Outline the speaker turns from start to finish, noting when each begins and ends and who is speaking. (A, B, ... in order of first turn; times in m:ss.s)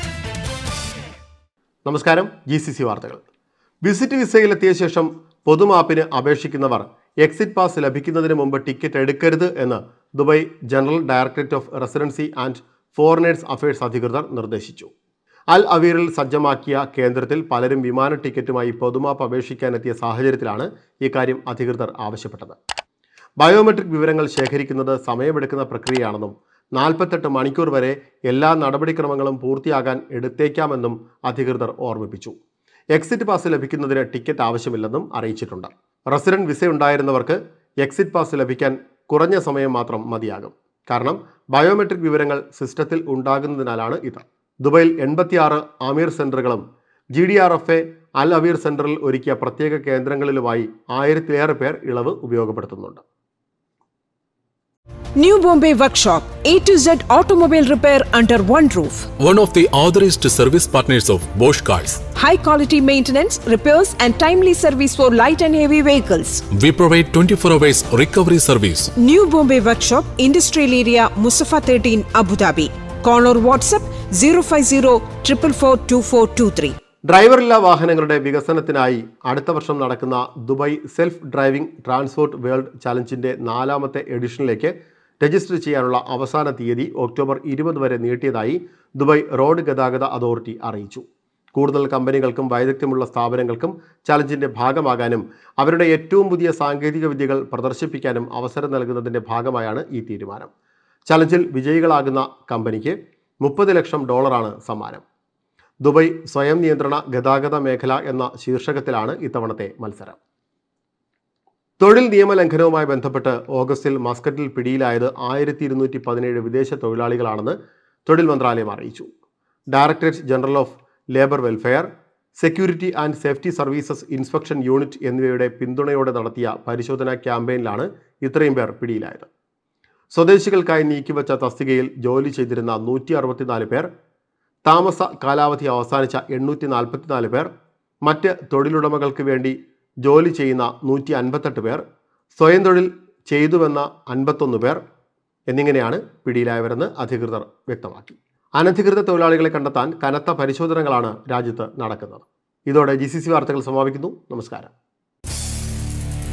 0:01.8-0:03.2 A
0:03.8-0:14.9 A
0:15.5-0:22.6 A
0:23.4-0:32.3 A
0:32.9-0:46.6 A
0:47.1-0:53.0 A
0:55.2-0:59.1 B
0:59.2-1:02.0 C
1:02.1-1:06.4 B
1:06.5-1:08.9 C
1:08.9-1:16.7 B
1:17.0-1:40.5 A
1:41.1-1:45.0 A
1:45.8-1:50.2 A
1:51.8-1:59.1 A
1:59.7-2:09.3 A
2:10.1-2:13.9 A
2:14.6-2:17.5 A
2:18.0-2:21.8 A
2:22.3-2:24.8 A
2:25.5-2:34.7 A